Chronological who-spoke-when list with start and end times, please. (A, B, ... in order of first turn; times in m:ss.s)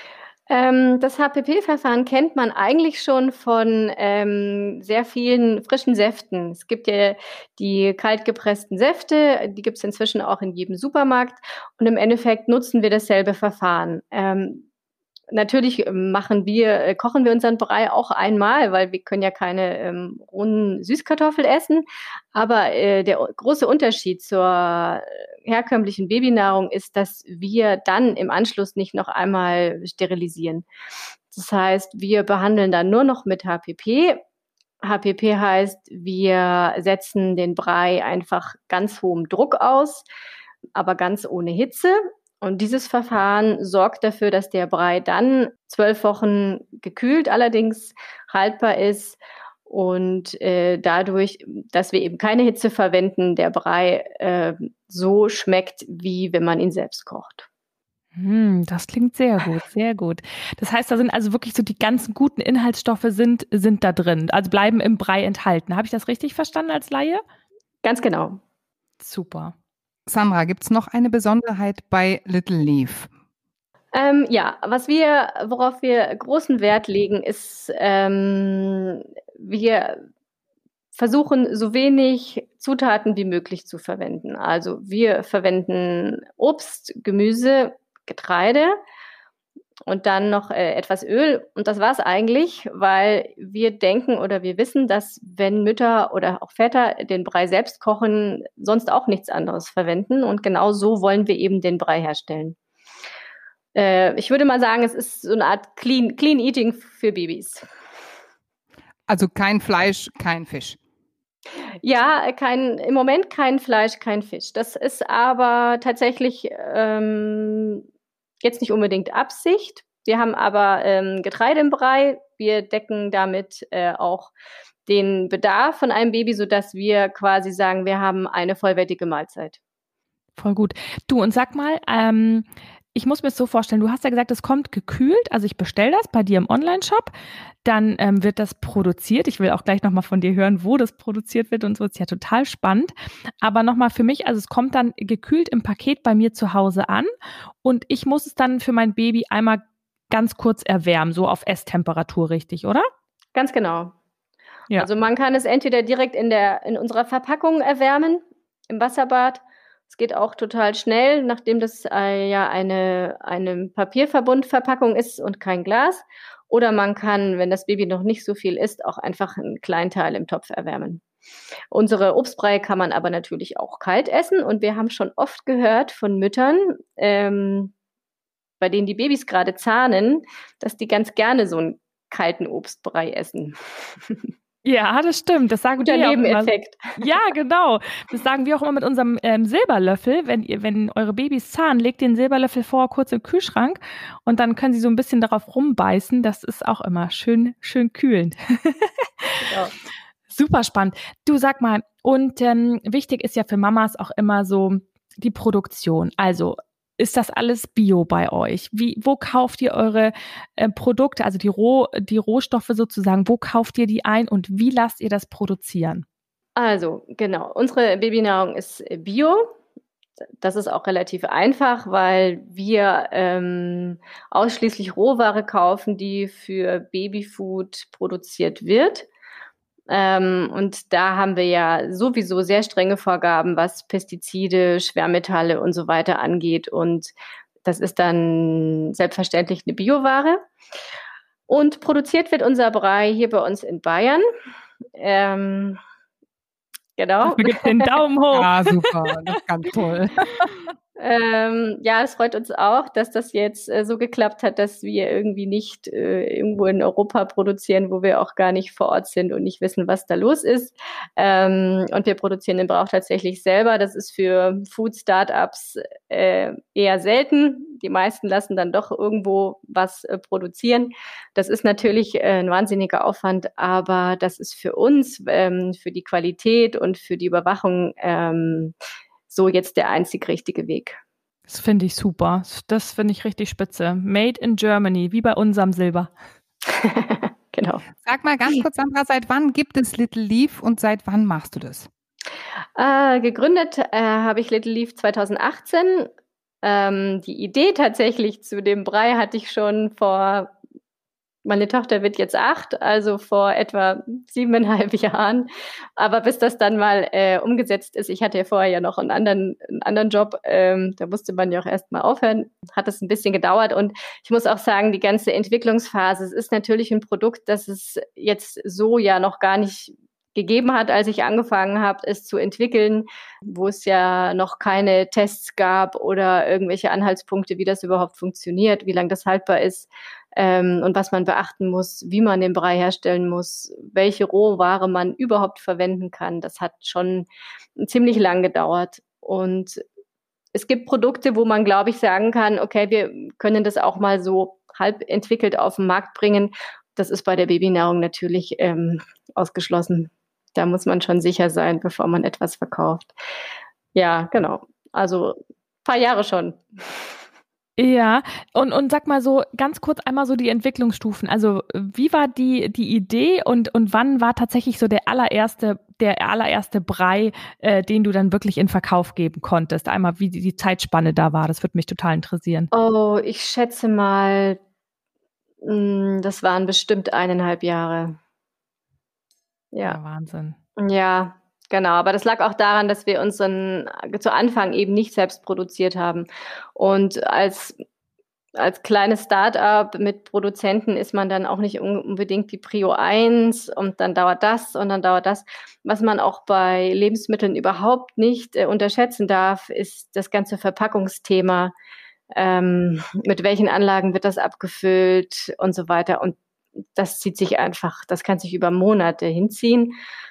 0:00.5-0:14.6 A
0:15.3-0:30.6 A
0:31.3-0:34.2 A
0:34.8-0:40.0 A
0:40.7-0:57.5 A
0:58.1-1:07.2 B
1:07.8-1:08.4 A
1:09.0-1:09.5 B
1:10.1-1:13.1 C
1:13.9-1:20.0 A
1:20.9-1:28.8 A
1:29.9-1:42.6 A
1:43.7-1:47.6 A
1:49.1-1:50.8 C
1:51.8-1:57.8 A
1:58.4-2:04.3 A
2:04.9-2:09.6 A
2:10.4-2:17.1 B
2:17.6-2:27.1 B
2:27.6-2:32.8 B
2:33.3-2:33.9 A
2:34.8-2:51.0 A
2:51.7-2:57.7 A
2:58.6-3:04.3 A
3:04.6-3:19.4 B
3:05.8-3:07.0 A
3:19.4-3:19.7 A
3:20.3-3:36.0 B
3:36.6-3:39.5 A
3:40.4-3:49.1 A
3:49.9-3:57.1 A
3:57.6-4:00.4 A
4:01.5-4:04.2 A
4:05.0-4:05.8 A
4:07.0-4:07.9 A
4:07.2-4:09.1 B
4:08.3-4:10.6 C
4:11.0-4:38.7 A
4:39.3-4:41.0 A
4:41.5-4:46.1 B
4:46.7-4:47.8 A
4:48.0-4:51.9 C
4:52.8-4:56.1 A
4:56.6-5:00.5 A
5:01.4-5:37.3 A
5:37.8-5:39.8 A
5:40.5-5:53.1 A
5:53.9-5:57.1 A
5:57.8-6:12.7 B
6:12.7-6:14.6 A
6:15.6-6:18.2 A
6:19.7-6:20.0 A
6:19.8-6:20.6 B
6:20.8-6:27.8 A
6:28.5-6:41.7 A
6:42.3-6:46.4 A
6:47.0-6:49.9 A